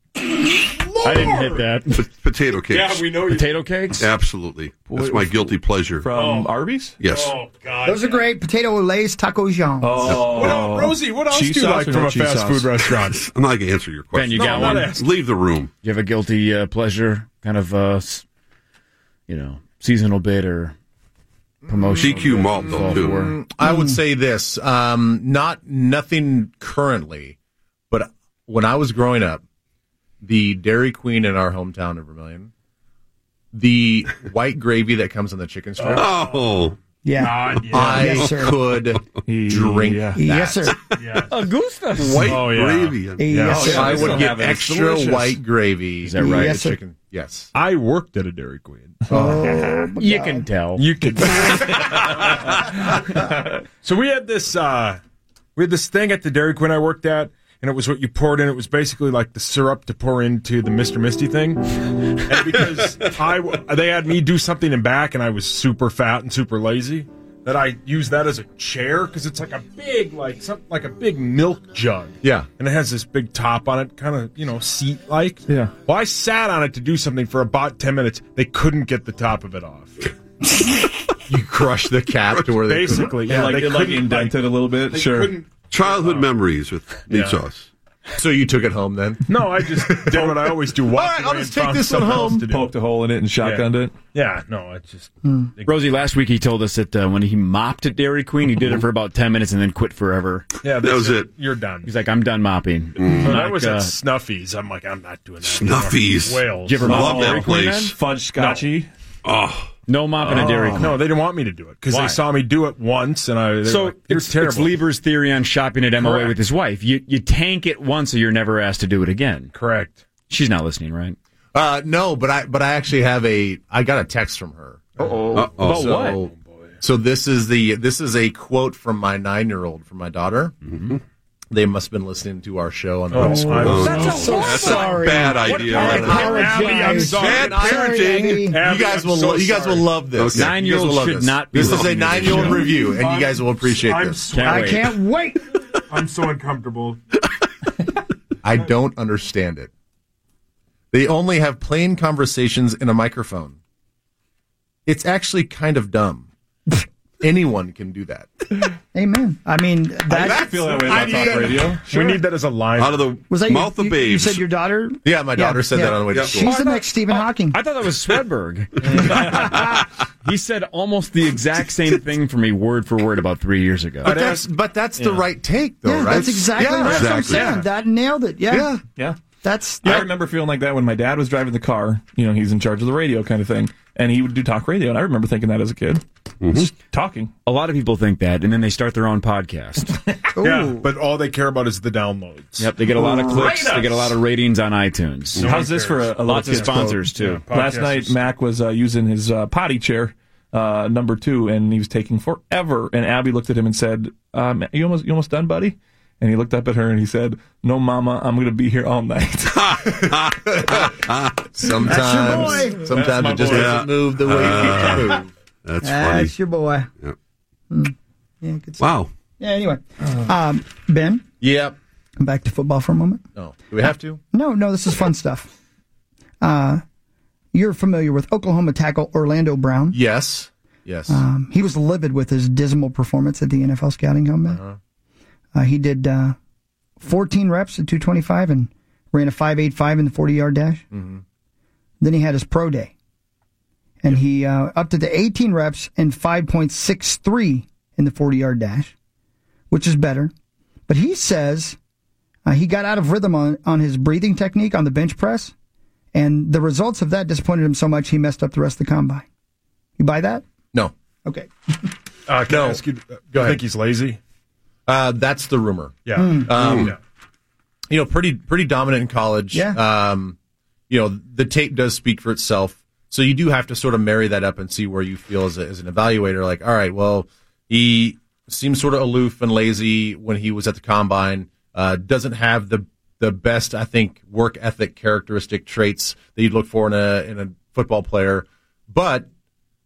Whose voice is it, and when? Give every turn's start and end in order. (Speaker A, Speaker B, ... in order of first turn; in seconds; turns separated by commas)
Speaker A: 0.5-1.6, Speaker B: 1.0-2.0, Speaker C: 2.0-3.0, Speaker A: 2.7-3.5, Speaker B: 3.2-4.0, Speaker C: 4.0-6.1, Speaker D: 4.9-7.0, Speaker A: 6.1-6.5, Speaker C: 7.0-7.3, Speaker A: 7.0-8.2, Speaker E: 7.8-10.2, Speaker D: 9.8-12.7, Speaker A: 10.1-13.3, Speaker C: 13.2-15.7, Speaker B: 14.1-14.9, Speaker A: 14.3-15.1, Speaker B: 15.8-18.2, Speaker B: 19.3-20.7, Speaker F: 21.6-27.4, Speaker B: 21.7-23.4, Speaker C: 21.9-23.1, Speaker E: 23.6-24.0, Speaker F: 27.9-29.4, Speaker F: 30.2-32.5, Speaker F: 33.5-36.1, Speaker A: 35.8-36.6, Speaker C: 36.0-36.8, Speaker E: 37.0-38.6, Speaker A: 37.2-38.2, Speaker F: 37.7-40.8, Speaker D: 39.3-40.2, Speaker E: 40.1-40.8, Speaker A: 41.0-41.3, Speaker B: 41.3-42.5, Speaker C: 42.0-43.3, Speaker A: 42.3-44.3, Speaker E: 43.2-44.2, Speaker D: 43.5-45.4, Speaker F: 43.6-47.5, Speaker B: 46.0-46.6, Speaker E: 46.2-46.8, Speaker A: 47.5-49.1, Speaker F: 49.1-49.5, Speaker E: 49.1-50.5, Speaker D: 49.3-49.7, Speaker B: 50.0-50.9, Speaker A: 50.8-53.3, Speaker A: 53.8-55.0, Speaker A: 55.5-61.6, Speaker A: 62.3-80.1, Speaker F: 72.2-72.5, Speaker D: 75.5-75.7, Speaker F: 81.3-83.2, Speaker A: 82.6-86.3, Speaker D: 83.2-85.4, Speaker C: 85.7-87.7, Speaker A: 87.1-87.4, Speaker F: 88.2-92.5, Speaker A: 89.3-92.7, Speaker D: 92.2-94.0, Speaker A: 93.4-96.0, Speaker E: 95.2-95.5, Speaker B: 95.7-100.5, Speaker A: 100.6-101.9, Speaker C: 100.8-101.3, Speaker B: 101.8-104.0, Speaker C: 103.0-103.3, Speaker A: 103.2-107.5, Speaker C: 105.5-107.9, Speaker B: 106.6-107.9, Speaker D: 106.9-108.9, Speaker A: 108.4-108.6, Speaker C: 109.2-109.7, Speaker B: 109.9-111.0, Speaker D: 110.3-110.6, Speaker A: 110.3-114.8, Speaker B: 111.9-112.2, Speaker B: 113.6-119.5, Speaker A: 116.0-116.3, Speaker A: 119.5-120.0, Speaker B: 120.3-121.2, Speaker F: 121.5-126.3, Speaker B: 125.3-126.2, Speaker F: 126.8-130.6, Speaker F: 131.5-134.1, Speaker A: 133.1-134.8, Speaker E: 133.2-138.6, Speaker B: 133.6-136.2, Speaker C: 133.7-136.2, Speaker A: 135.5-139.9, Speaker F: 135.6-144.4, Speaker C: 137.2-138.4, Speaker C: 140.2-140.5, Speaker B: 140.3-142.7, Speaker C: 141.6-142.5, Speaker A: 142.8-144.7, Speaker B: 144.2-144.9, Speaker E: 144.4-145.4, Speaker A: 145.9-147.0, Speaker F: 148.4-149.7, Speaker F: 150.9-153.6, Speaker F: 154.9-156.3, Speaker F: 157.2-158.3, Speaker E: 158.9-161.3, Speaker D: 160.1-161.9, Speaker F: 160.2-161.7, Speaker A: 160.7-163.1, Speaker C: 162.8-164.4, Speaker E: 163.3-167.6, Speaker F: 165.0-166.7, Speaker B: 167.5-169.7, Speaker E: 169.2-169.8, Speaker B: 170.2-174.1, Speaker A: 174.0-174.4, Speaker F: 174.0-177.4, Speaker E: 175.8-178.7, Speaker C: 176.8-177.4, Speaker F: 178.5-178.8, Speaker E: 179.4-180.1, Speaker D: 179.8-187.3, Speaker C: 186.4-186.7, Speaker B: 187.4-190.0, Speaker E: 190.3-190.9, Speaker A: 190.4-194.1, Speaker B: 192.6-195.6, Speaker E: 193.0-193.4, Speaker A: 195.4-198.2, Speaker D: 195.4-209.6, Speaker B: 196.2-197.4, Speaker C: 209.6-211.4, Speaker F: 209.8-211.0, Speaker F: 211.5-215.3, Speaker E: 211.9-212.9, Speaker A: 213.0-213.6, Speaker D: 213.1-213.6, Speaker C: 213.5-216.3, Speaker E: 215.8-216.9, Speaker E: 217.7-218.9, Speaker C: 218.8-219.1, Speaker E: 219.4-221.3, Speaker F: 221.4-221.7, Speaker E: 222.2-223.2, Speaker F: 223.3-224.2, Speaker E: 223.8-225.5, Speaker E: 226.4-226.8, Speaker E: 227.5-230.0, Speaker F: 229.9-231.2, Speaker E: 231.1-234.6, Speaker F: 234.5-234.8, Speaker E: 235.5-236.4, Speaker E: 237.0-240.8, Speaker F: 240.9-241.2, Speaker E: 242.0-242.9, Speaker E: 244.0-248.9, Speaker E: 249.7-250.3, Speaker E: 250.9-251.8, Speaker E: 252.4-255.5, Speaker E: 256.1-259.3, Speaker E: 260.0-260.4, Speaker A: 262.3-264.2, Speaker F: 262.4-263.6, Speaker F: 264.9-266.9, Speaker A: 266.0-267.0, Speaker E: 266.1-266.5, Speaker C: 266.6-266.9, Speaker F: 267.9-270.4, Speaker E: 269.5-269.8, Speaker F: 270.9-289.3